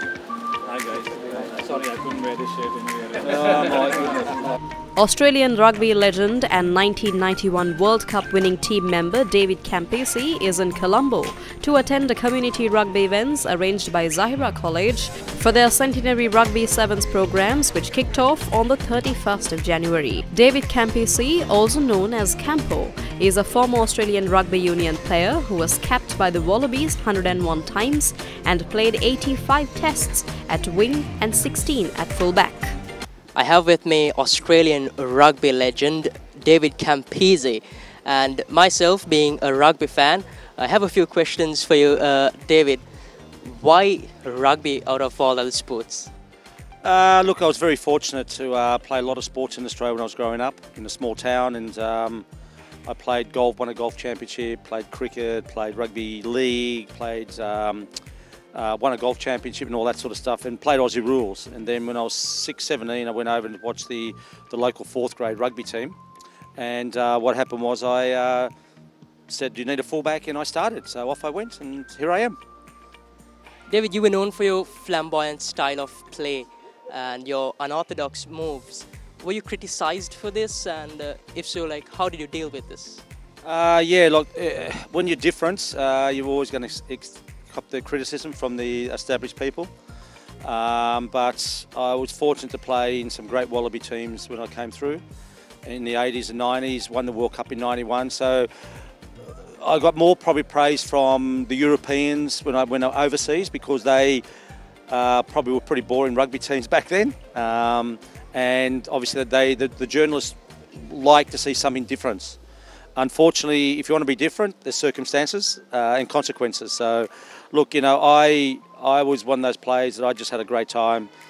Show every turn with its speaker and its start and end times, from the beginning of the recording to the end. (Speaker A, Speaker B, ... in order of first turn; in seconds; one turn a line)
Speaker A: 0.7-4.3
Speaker B: 3.4-4.0
Speaker C: 5.0-32.8
Speaker D: 33.4-42.8
Speaker D: 43.4-46.1
Speaker B: 46.8-52.3
Speaker B: 52.9-57.9
Speaker B: 58.5-66.0
Speaker B: 66.6-68.5
Speaker B: 69.3-72.4
Speaker D: 73.7-83.0
Speaker B: 83.4-89.7
Speaker B: 90.4-95.0
Speaker B: 95.7-98.5
Speaker B: 99.5-104.2
Speaker B: 104.9-112.4
Speaker B: 113.0-121.1